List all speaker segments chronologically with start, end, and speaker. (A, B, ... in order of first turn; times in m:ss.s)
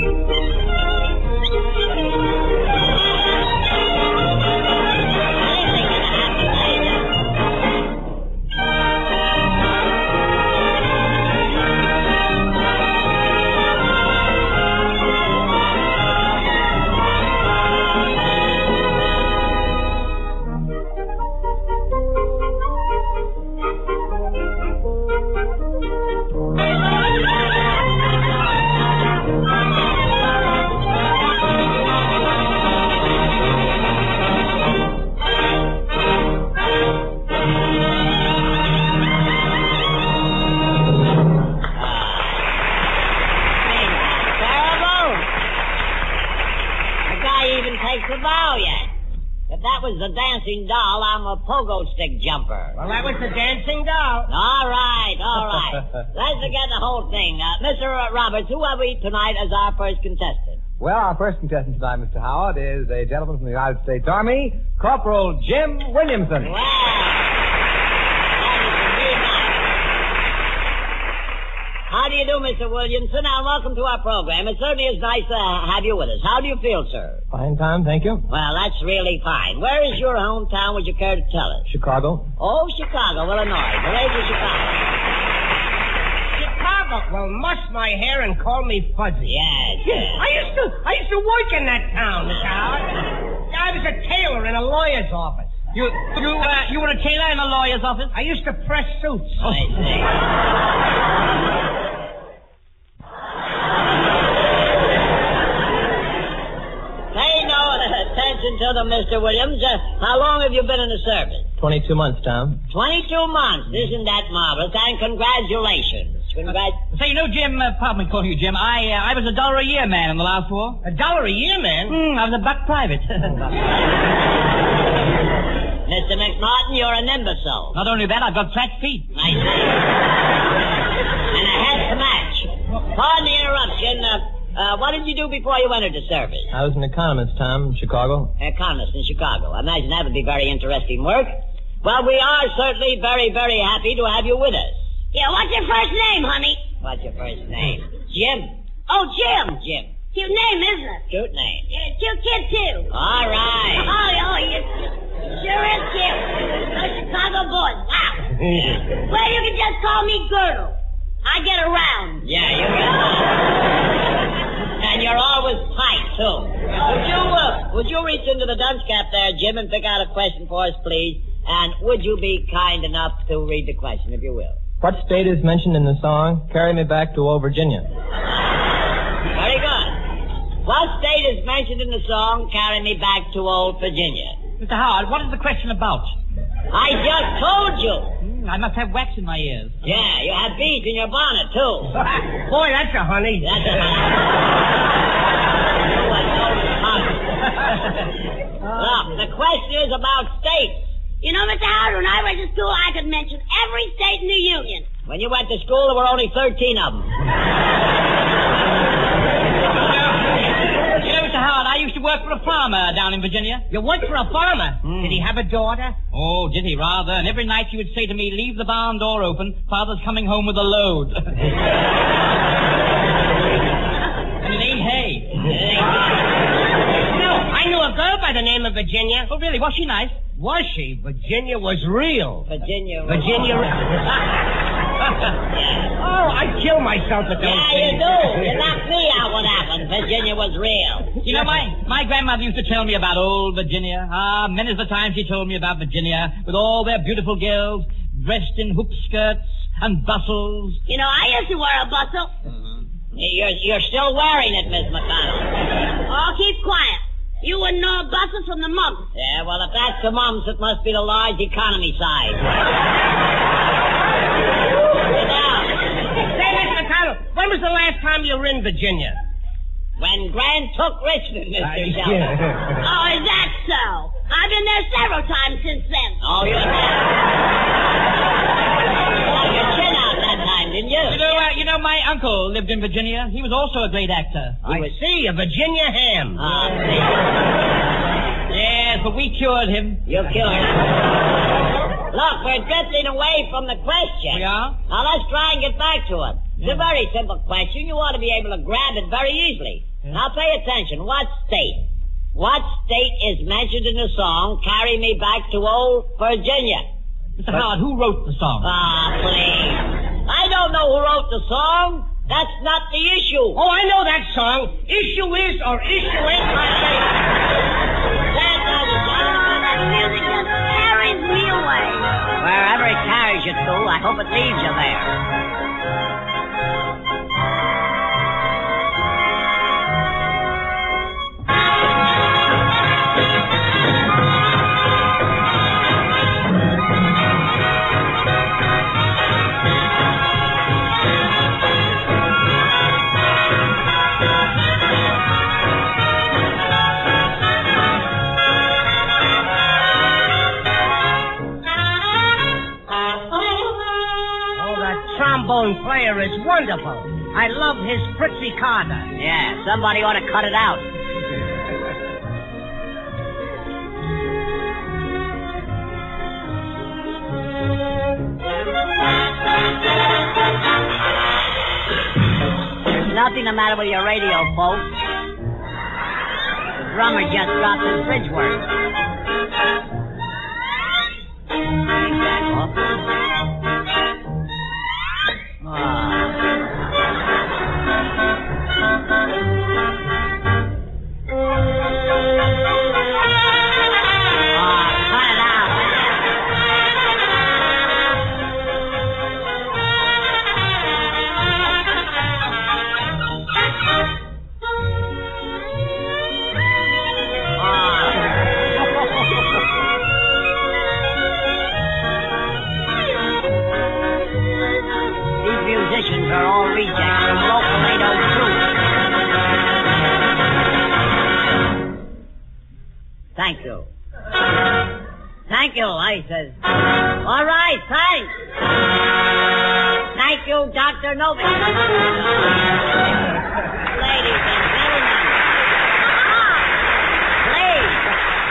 0:05.4-0:07.1 A
0:41.7-0:42.5 A
0:43.6-0:45.3 A
0:47.0-0:48.9 A
0:49.5-0:52.8 A
0:52.8-0:54.3 B
0:54.3-1:00.6 A
1:00.8-1:06.5 C
1:06.4-1:07.4 A
1:08.4-1:09.6 A
1:11.9-1:17.2 A
1:17.3-1:18.2 C
1:18.3-1:21.6 A
1:21.6-1:22.3 C
1:22.4-1:24.8 A
1:26.4-1:32.9 B
1:29.2-1:30.2 A
1:33.5-1:35.5 B
1:35.7-1:38.1 D
1:38.1-1:39.6 B
1:39.4-1:40.1 A
1:47.1-1:51.5 A
1:51.6-1:52.6 C
1:52.7-1:56.8 A
1:56.9-2:00.8 D
2:00.8-2:02.0 B
2:01.9-2:03.4 D
2:05.9-2:07.8 A
2:07.7-2:09.1 D
2:09.1-2:09.8 A
2:11.3-2:16.5 A
2:16.5-2:18.3 C
2:18.4-2:24.8 A
2:25.1-2:26.6 E
2:26.8-2:28.6 A
2:28.9-2:29.6 E
2:29.6-2:29.9 A
2:30.1-2:31.0 E
2:31.1-2:31.6 A
2:31.7-2:32.9 E
2:32.9-2:33.9 A
2:33.8-2:38.3 E
2:38.4-2:38.8 B
2:38.9-2:42.2 E
2:42.2-2:43.5 A
2:44.6-2:54.6 A
2:54.8-2:57.9 C
2:59.3-3:00.0 A
3:00.6-3:04.4 A
3:04.6-3:06.1 D
3:06.7-3:08.2 A
3:08.2-3:09.8 D
3:09.8-3:11.9 A
3:12.4-3:13.9 B
3:13.4-3:14.5 A
3:15.7-3:17.6 A
3:18.7-3:20.9 A
3:21.2-3:24.9 E
3:25.1-3:27.1 A
3:29.8-3:30.4 D
3:31.0-3:33.6 D
3:33.7-3:35.9 B
3:36.1-3:41.5 D
3:44.4-3:45.5 D
3:45.4-3:46.1 A
3:47.0-3:49.3 B
3:49.3-3:50.2 D
3:50.4-3:52.5 B
3:52.5-3:53.7 A
3:53.1-3:54.2 B
3:55.5-3:55.9 A
3:56.0-3:58.7 B
3:57.4-4:01.2 A
4:01.2-4:10.8 D
4:10.9-4:12.3 E
4:13.1-4:15.6 A
4:16.1-4:19.1 E
4:19.1-4:22.6 A
4:25.0-4:25.7 A
4:26.1-4:29.2 B
4:30.0-4:32.3 A
4:31.6-4:32.8 B
4:32.8-4:36.2 E
4:36.2-4:37.1 A
4:39.2-4:41.2 A
4:41.1-4:44.6 D
4:44.6-4:44.9 A
4:44.6-4:46.4 B
4:46.4-4:47.3 A
4:48.5-4:50.1 D
4:50.1-4:50.8 A
4:52.0-5:06.8 A
4:54.3-4:54.8 D
5:07.4-5:08.7 D
5:08.6-5:13.6 A
5:13.6-5:17.2 B
5:18.3-5:19.3 A
5:19.2-5:22.1 E
5:22.4-5:25.2 A
5:54.6-5:59.1 B
5:59.2-6:00.9 A
6:12.9-6:15.0 A
6:16.8-6:18.7 A
6:21.9-6:22.8 A
6:25.6-6:26.4 A
6:34.5-6:36.2 A
6:47.6-6:48.3 A
6:55.4-6:58.7 A
7:03.4-7:03.9 A
7:05.5-7:06.6 A
7:07.2-7:08.4 A
7:10.1-7:12.4 A
7:13.9-7:15.6 A
7:17.4-7:18.2 A